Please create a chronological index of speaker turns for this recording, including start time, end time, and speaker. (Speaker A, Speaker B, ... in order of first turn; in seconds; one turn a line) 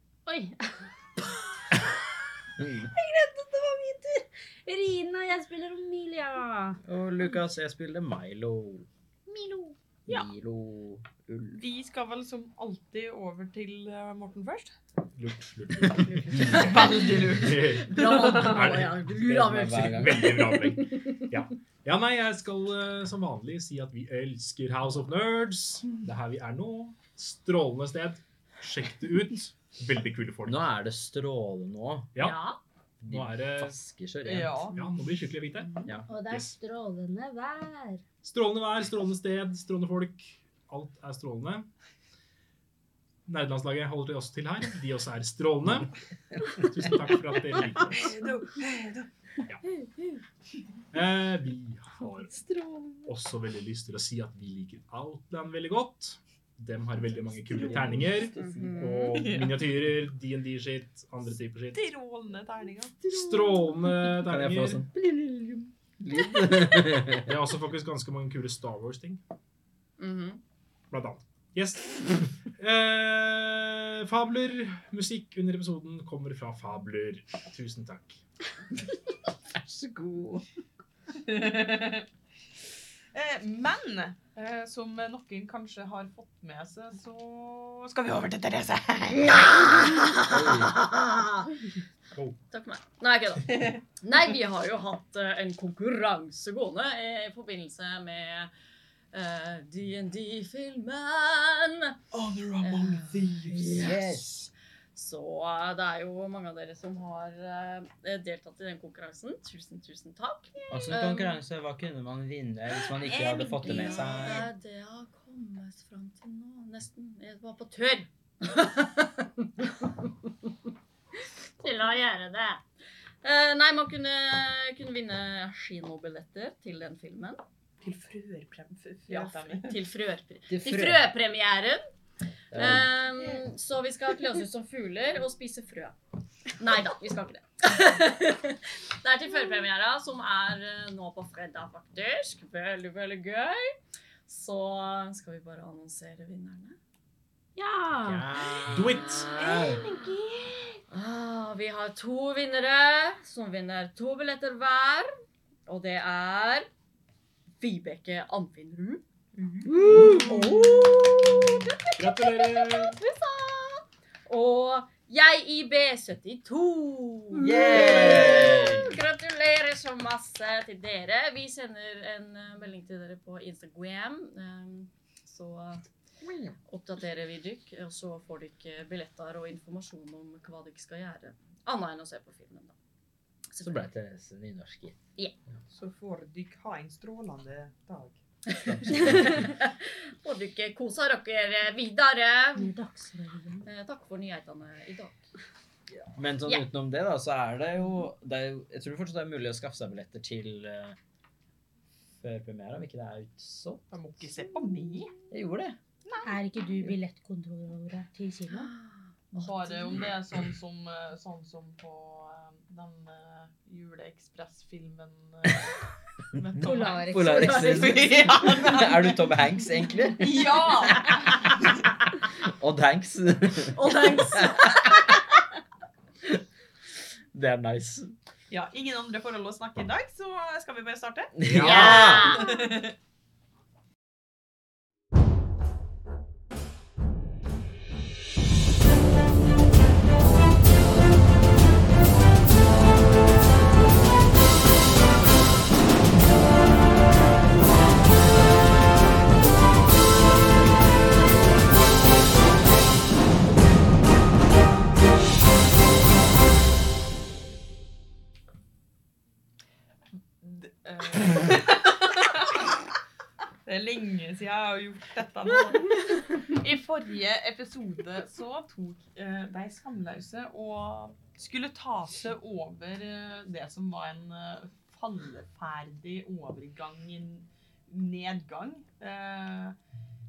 Speaker A: 0.3-0.8
Speaker B: 2.6-2.9
Speaker A: 2.8-6.8
Speaker B: 6.8-8.9
Speaker A: 9.3-10.3
Speaker B: 10.1-11.7
Speaker C: 11.6-14.7
Speaker D: 15.2-30.7
Speaker E: 15.9-21.3
Speaker C: 16.4-18.6
Speaker B: 19.1-20.4
Speaker B: 30.5-32.1
Speaker E: 32.2-32.6
Speaker B: 33.0-34.7
Speaker D: 33.0-33.8
Speaker C: 34.2-34.8
Speaker D: 34.8-36.5
Speaker A: 36.1-38.0
Speaker D: 38.2-41.7
Speaker D: 43.3-48.2
Speaker B: 46.5-46.9
Speaker C: 48.0-49.1
Speaker D: 50.9-52.3
Speaker B: 52.5-52.9
Speaker D: 53.1-61.9
Speaker B: 57.5-58.9
Speaker E: 58.3-59.2
Speaker C: 59.1-59.6
Speaker C: 61.7-63.2
Speaker D: 63.1-64.9
Speaker B: 64.0-67.3
Speaker D: 67.2-69.2
Speaker E: 70.0-70.4
Speaker D: 70.9-78.2
Speaker B: 79.6-80.5
Speaker C: 81.1-82.1
Speaker C: 83.1-89.7
Speaker E: 89.5-91.6
Speaker B: 90.3-90.8
Speaker E: 92.5-98.5
Speaker C: 93.5-93.8
Speaker E: 99.1-102.0
Speaker C: 102.1-104.0
Speaker E: 102.6-104.3
Speaker B: 103.5-104.5
Speaker E: 104.9-111.4
Speaker B: 110.7-114.5
Speaker C: 113.0-114.5
Speaker E: 113.4-120.1
Speaker E: 121.2-122.6
Speaker E: 123.2-127.4
Speaker C: 127.8-129.8
Speaker E: 129.1-131.8
Speaker B: 130.5-131.1
Speaker E: 132.5-136.0
Speaker B: 132.5-133.0
Speaker E: 136.6-143.7
Speaker E: 144.3-146.8
Speaker A: 147.6-148.3
Speaker B: 148.1-149.8
Speaker D: 148.7-149.3
Speaker E: 149.0-149.3
Speaker C: 149.3-150.8
Speaker E: 150.9-155.1
Speaker E: 155.7-156.7
Speaker E: 157.6-159.0
Speaker C: 159.4-159.6
Speaker B: 159.8-160.7
Speaker D: 159.9-160.4
Speaker E: 160.1-161.1
Speaker E: 161.7-175.9
Speaker D: 162.0-163.0
Speaker B: 167.3-169.0
Speaker B: 176.2-176.6
Speaker E: 176.7-182.7
Speaker B: 183.6-185.0
Speaker C: 185.7-188.2
Speaker B: 188.6-189.5
Speaker E: 188.9-192.7
Speaker A: 192.6-193.7
Speaker E: 193.7-195.2
Speaker B: 196.2-201.0
Speaker B: 202.2-203.8
Speaker C: 203.9-205.1
Speaker B: 205.3-205.8
Speaker C: 206.1-206.3
Speaker A: 206.2-208.7
Speaker E: 208.5-210.0
Speaker C: 209.4-215.8
Speaker C: 216.4-219.3
Speaker B: 216.6-220.4
Speaker A: 216.6-218.2
Speaker C: 220.2-221.6
Speaker B: 222.4-225.4
Speaker E: 223.7-225.3
Speaker B: 227.3-228.2
Speaker C: 228.5-231.5
Speaker B: 231.4-232.4
Speaker D: 231.4-232.1
Speaker E: 231.6-232.8
Speaker C: 232.1-232.9
Speaker C: 260.4-262.8
Speaker C: 263.6-279.8